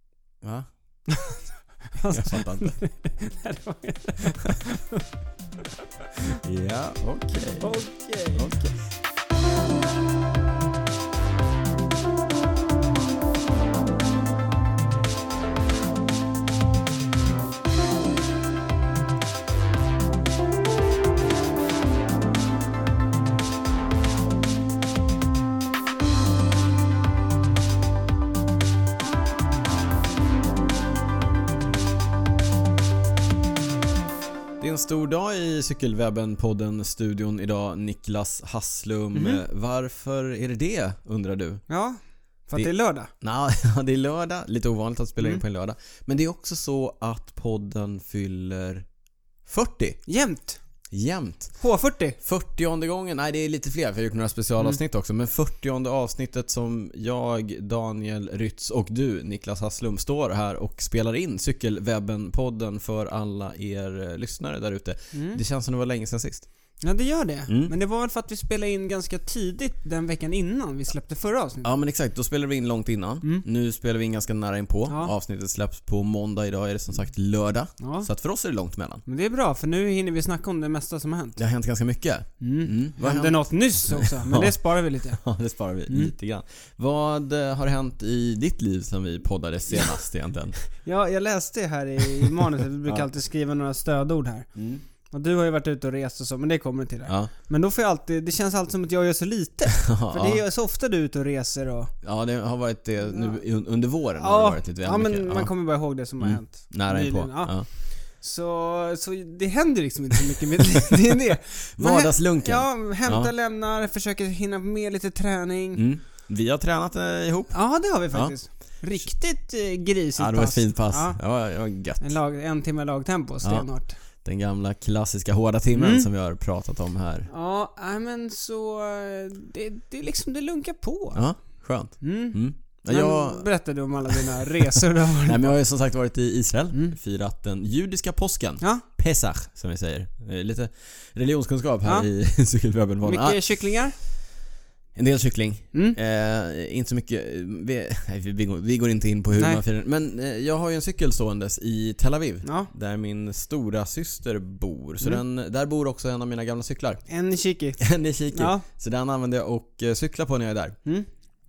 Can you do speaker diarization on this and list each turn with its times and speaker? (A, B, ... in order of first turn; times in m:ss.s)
0:00.4-0:00.7 A
0:01.1-0:05.0 B
0:02.1-0:02.7 A
0:06.4-0:07.7 A
0:07.6-0:08.5 B
0:08.3-0:08.8 A
0:34.6-0:41.6 A
0:39.1-0:39.4 B
0:41.7-0:43.1 B
0:43.2-0:48.8 A
0:49.4-0:50.0 A
0:50.1-0:50.6 B
0:50.9-0:51.5 A
0:51.6-0:52.2 B
0:52.2-1:06.5 A
1:05.1-1:05.4 B
1:06.8-1:11.7 B
1:07.5-1:07.7 A
1:11.6-1:19.0 A
1:17.8-1:18.1 B
1:19.0-1:21.4 B
1:21.4-1:24.6 A
1:22.4-1:25.2 B
1:25.1-1:30.6 A
1:30.8-1:34.5 B
1:34.5-1:34.8 A
1:35.1-1:41.9 B
1:39.8-1:40.4 A
1:42.0-1:45.5 A
1:43.1-1:43.4 B
1:44.2-1:47.6 B
1:46.2-1:47.6 A
1:48.2-1:55.8 B
1:50.7-1:51.1 A
1:51.8-1:53.3 A
1:55.8-1:57.5 A
1:57.5-2:01.2 B
2:00.2-2:02.1 A
2:02.0-2:04.0 B
2:04.2-2:07.3 A
2:05.8-2:06.1 B
2:07.3-2:11.2 B
2:11.1-2:13.4 A
2:12.0-2:15.5 B
2:14.7-2:23.4 A
2:23.0-2:23.9 B
2:24.9-2:37.0 A
2:29.4-2:29.6 B
2:32.4-2:32.7 B
2:37.1-2:37.8 B
2:37.8-2:40.8 A
2:38.3-2:38.6 B